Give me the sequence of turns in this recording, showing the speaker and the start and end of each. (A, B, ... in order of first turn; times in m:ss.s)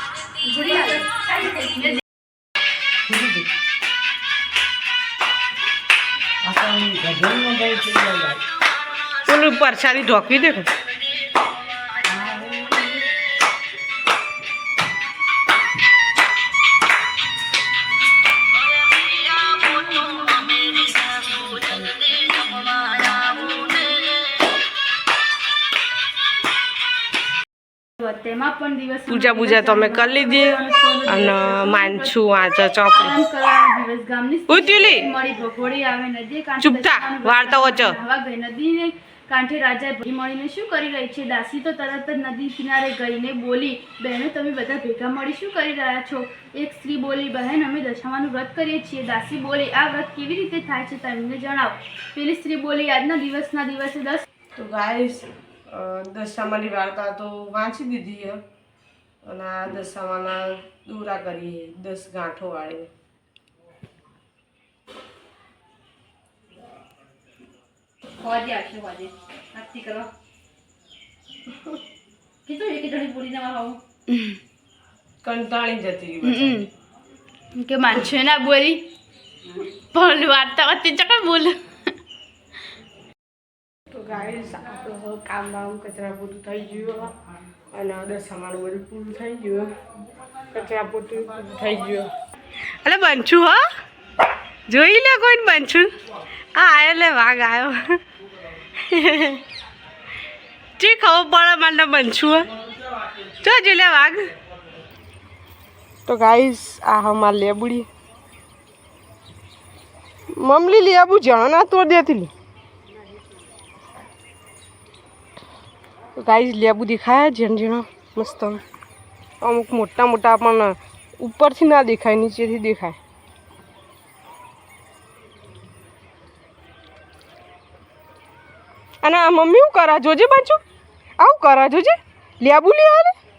0:00.4-0:02.0 A
0:00.6-0:00.9 B
0:03.1-0:03.4 C
0:06.4-0:08.4 C
0:09.2-0:10.7 D
0:12.1-0:12.9 C
0:28.0-0:32.2 A
0:29.1-0:33.2 D
0:32.9-0:54.2 A
0:34.5-0:35.1 D
0:36.6-0:38.0 D
0:54.5-0:58.4 D
0:59.2-1:02.9 D
1:08.2-1:10.1 B
1:12.4-1:13.8 B
1:15.2-1:16.6 D
1:16.2-1:16.7 A
1:17.5-1:18.8 A
1:19.7-1:21.6 A
1:23.9-1:27.1 D
1:27.7-1:29.7 D
1:30.5-1:32.1 D
1:32.8-1:33.6 D
1:34.7-1:35.9 D
1:36.5-1:38.0 D
1:38.8-1:39.4 D
1:40.8-1:42.5 D
1:43.4-1:44.3 D
1:46.0-1:47.9 D
1:50.4-1:52.3 D
1:56.2-1:58.6 D
1:59.4-2:03.0 D
2:09.0-2:10.6 D
2:11.2-2:13.1 D